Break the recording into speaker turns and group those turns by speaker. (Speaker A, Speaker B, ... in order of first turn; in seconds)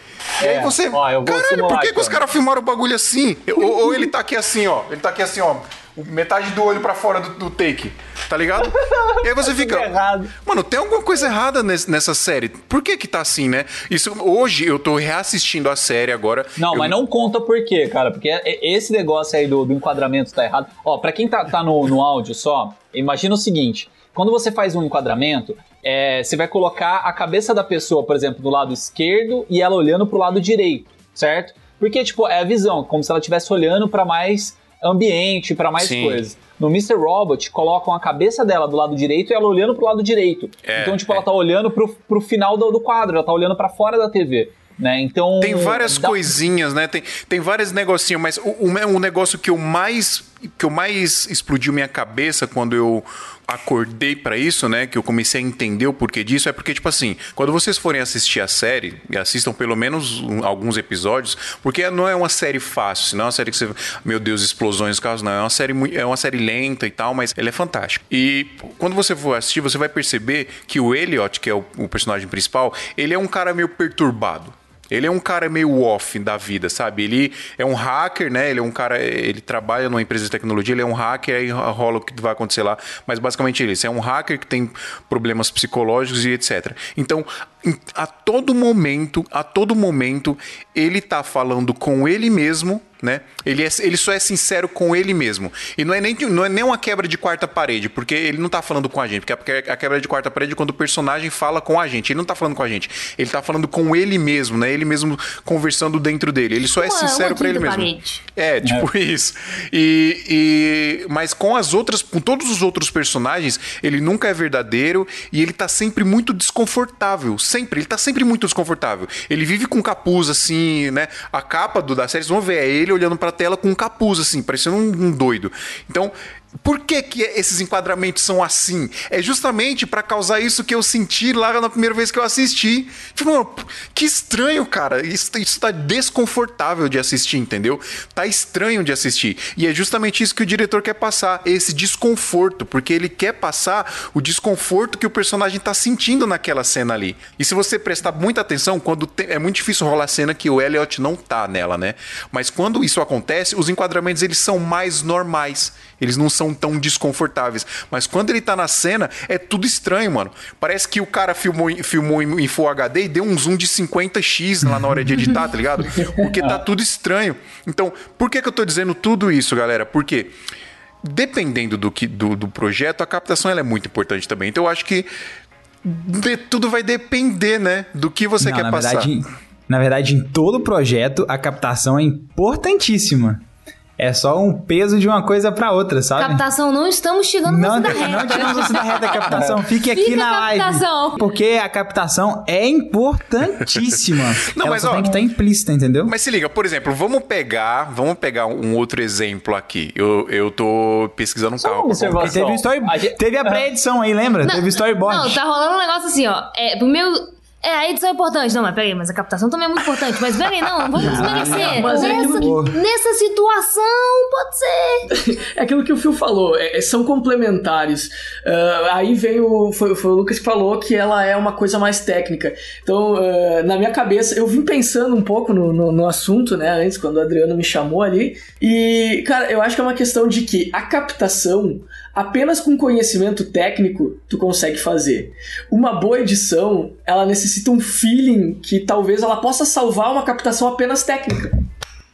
Speaker A: 0.4-2.2, 8.6-10.3, 16.6-46.3, 108.6-108.9, 201.6-203.6
Speaker B: 0.4-17.0, 35.8-36.2, 40.6-41.2, 45.4-170.3, 171.0-175.1, 175.8-179.1, 194.5-195.2, 196.1-202.3
Speaker C: 106.7-108.2, 186.2-188.8, 189.8-191.2, 204.4-215.1
Speaker D: 166.0-166.5, 211.2-212.5, 215.2-241.6
Speaker E: 178.4-183.4, 184.0-186.4, 187.4-196.1, 202.2-205.4, 211.0-212.8